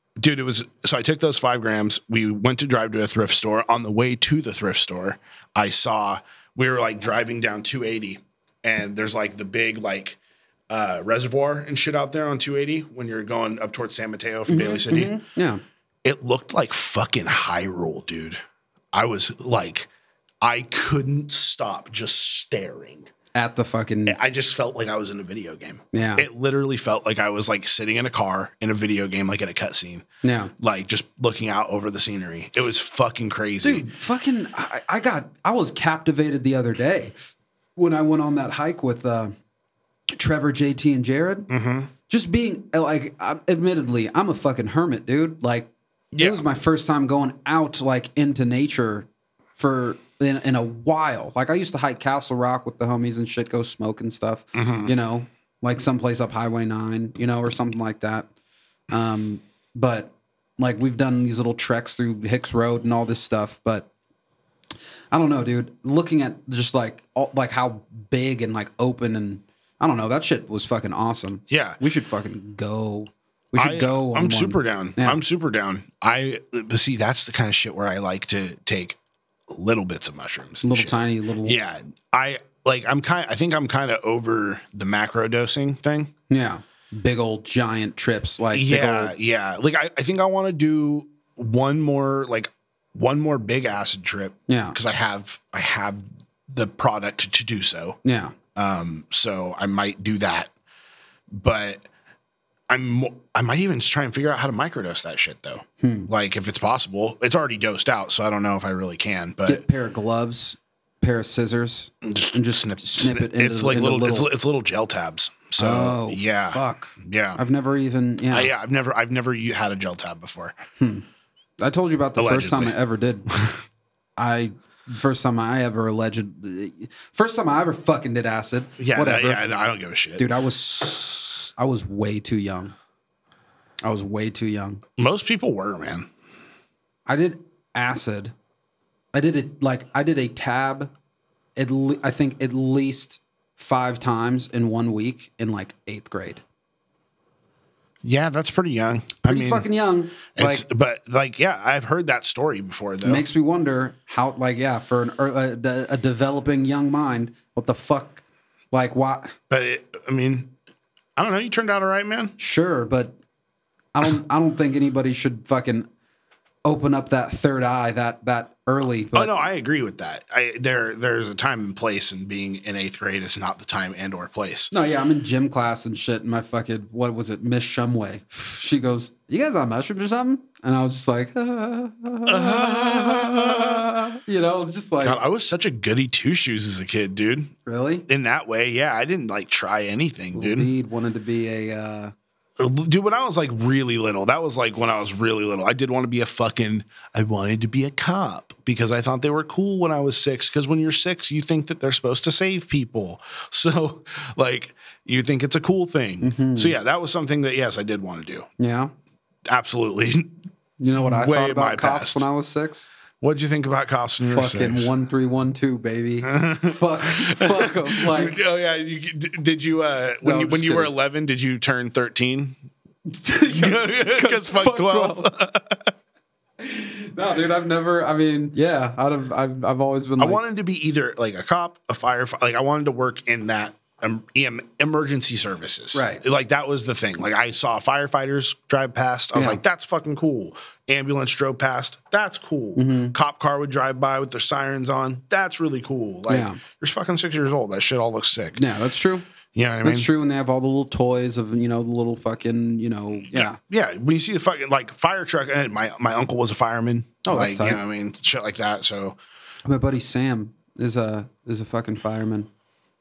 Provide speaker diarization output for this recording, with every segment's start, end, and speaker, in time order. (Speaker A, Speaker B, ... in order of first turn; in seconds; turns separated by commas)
Speaker A: 0.2-15.1, Speaker B: 14.5-15.6, Speaker A: 16.0-18.4, Speaker A: 18.9-19.9, Speaker A: 20.4-23.1, Speaker B: 23.3-24.2, Speaker A: 24.1-30.0, Speaker B: 25.9-26.2, Speaker B: 30.2-30.5, Speaker A: 30.6-33.8, Speaker B: 33.6-37.2, Speaker B: 37.8-39.3, Speaker B: 40.1-41.5, Speaker A: 41.5-41.9, Speaker B: 42.1-58.3, Speaker A: 46.1-46.4, Speaker A: 54.5-54.9, Speaker B: 58.9-63.9, Speaker B: 65.1-75.2, Speaker A: 71.5-71.8, Speaker A: 73.6-79.0, Speaker A: 79.5-86.1, Speaker B: 80.6-81.5, Speaker B: 86.3-89.1, Speaker A: 88.5-98.0, Speaker B: 94.5-94.8, Speaker B: 98.0-98.3, Speaker A: 98.5-100.5, Speaker A: 101.3-101.8, Speaker A: 102.7-109.6, Speaker B: 105.8-106.1, Speaker B: 109.4-114.3, Speaker A: 112.0-117.4, Speaker B: 115.6-118.5, Speaker A: 118.3-120.5, Speaker B: 120.8-121.0, Speaker B: 121.6-123.3, Speaker A: 122.2-122.7, Speaker A: 123.3-123.6, Speaker B: 124.2-129.5, Speaker A: 128.8-130.3, Speaker B: 130.2-132.7, Speaker B: 133.8-134.8, Speaker A: 135.0-136.1, Speaker B: 137.1-138.3, Speaker B: 139.1-140.9, Speaker B: 141.6-146.4, Speaker A: 148.0-149.7, Speaker B: 149.2-150.6, Speaker A: 150.3-153.2, Speaker B: 153.0-159.3, Speaker A: 159.5-160.5, Speaker A: 161.2-162.3, Speaker B: 162.4-163.1, Speaker B: 163.9-165.9, Speaker B: 166.6-169.3, Speaker A: 169.1-174.7, Speaker B: 174.7-185.2, Speaker A: 182.2-183.9, Speaker A: 185.0-187.5, Speaker B: 187.7-188.1, Speaker A: 188.1-190.7, Speaker B: 190.3-192.1, Speaker A: 192.6-208.5, Speaker B: 206.2-206.7, Speaker B: 208.6-208.9, Speaker A: 209.4-210.4, Speaker B: 210.8-212.9, Speaker A: 211.0-212.2, Speaker A: 213.2-214.9, Speaker B: 214.2-218.4, Speaker A: 216.2-222.6, Speaker B: 220.2-220.9, Speaker B: 223.1-225.3, Speaker A: 223.5-225.9, Speaker B: 226.6-230.4, Speaker A: 230.2-248.6, Speaker B: 235.9-236.2, Speaker B: 239.3-239.6, Speaker B: 242.8-243.1, Speaker B: 246.3-246.6, Speaker B: 248.6-249.2, Speaker A: 249.5-250.1, Speaker B: 249.8-253.6, Speaker A: 253.3-259.2, Speaker B: 257.2-257.8, Speaker B: 259.6-262.5